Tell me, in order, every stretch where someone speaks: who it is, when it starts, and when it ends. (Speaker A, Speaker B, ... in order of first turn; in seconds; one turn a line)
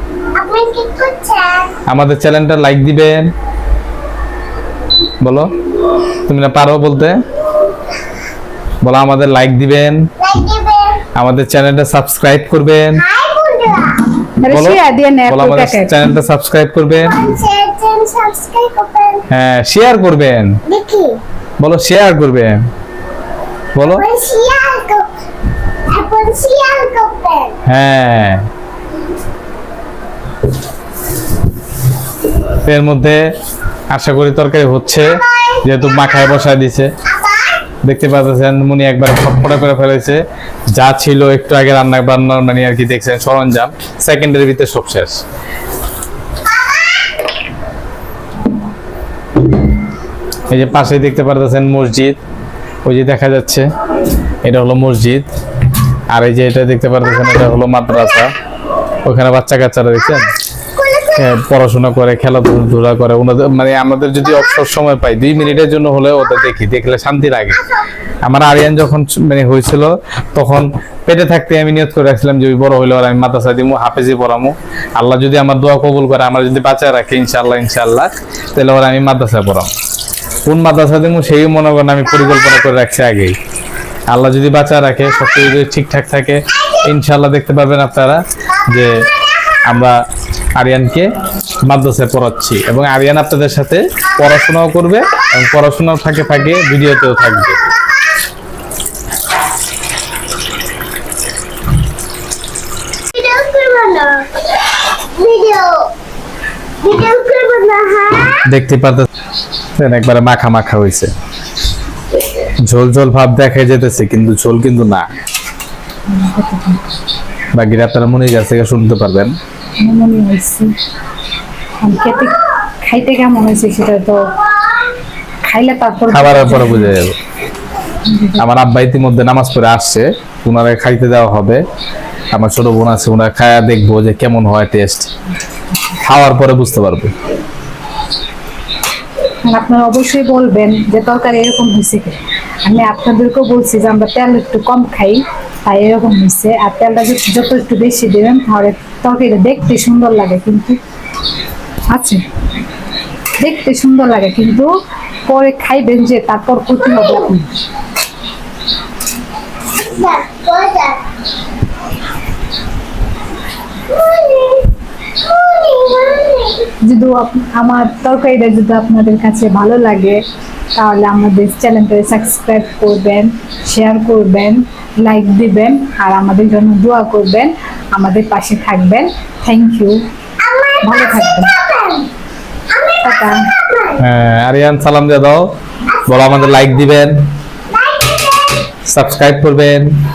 Speaker A: 0.3-1.8
Speaker B: 1.9-3.3
Speaker B: 5.2-5.5
Speaker B: 6.2-7.2
Speaker B: 8.8-10.1
Speaker A: 10.2-11.0
Speaker B: 11.2-13.1
Speaker A: 13.1-14.1
Speaker C: 14.4-16.1
Speaker B: 14.5-17.2
Speaker A: 17.2-19.2
Speaker B: 19.3-20.6
Speaker A: 20.7-21.2
Speaker B: 21.6-22.6
Speaker B: 23.7-24.1
Speaker A: 24.0-25.1
Speaker A: 25.9-27.5
Speaker B: 27.6-28.4
Speaker B: 32.5-33.2
Speaker B: 33.9-36.9
Speaker B: 37.8-40.2
Speaker B: 40.7-45.2
Speaker B: 50.5-52.2
Speaker B: 52.8-53.7
Speaker B: 54.4-55.3
Speaker B: 56.1-58.3
Speaker B: 59.0-60.3
Speaker A: 60.8-61.1
Speaker B: 61.1-67.7
Speaker B: 68.2-79.7
Speaker B: 80.5-83.3
Speaker B: 84.1-89.1
Speaker B: 89.6-90.0
Speaker B: 90.6-91.1
Speaker B: 91.6-97.6
Speaker A: 103.1-104.4
Speaker A: 105.1-105.9
Speaker A: 106.8-108.4
Speaker B: 108.4-109.1
Speaker B: 109.8-111.1
Speaker B: 112.6-115.1
Speaker C: 116.1-116.8
Speaker B: 117.5-119.3
Speaker C: 119.8-120.7
Speaker C: 121.8-124.3
Speaker C: 125.4-127.0
Speaker B: 126.1-127.2
Speaker C: 128.0-128.4
Speaker B: 128.4-131.6
Speaker B: 132.3-135.1
Speaker B: 136.0-137.1
Speaker C: 139.4-150.8
Speaker C: 151.9-152.2
Speaker C: 153.4-154.7
Speaker C: 155.3-157.5
Speaker A: 159.8-161.0
Speaker A: 163.9-164.7
Speaker A: 165.2-166.6
Speaker C: 166.8-170.2
Speaker C: 170.7-180.0
Speaker A: 180.5-180.8
Speaker C: 180.8-181.6
Speaker A: 181.6-182.1
Speaker C: 183.0-183.5
Speaker A: 183.6-183.9
Speaker B: 183.9-185.5
Speaker B: 186.1-187.3
Speaker A: 187.8-188.6
Speaker B: 188.9-189.9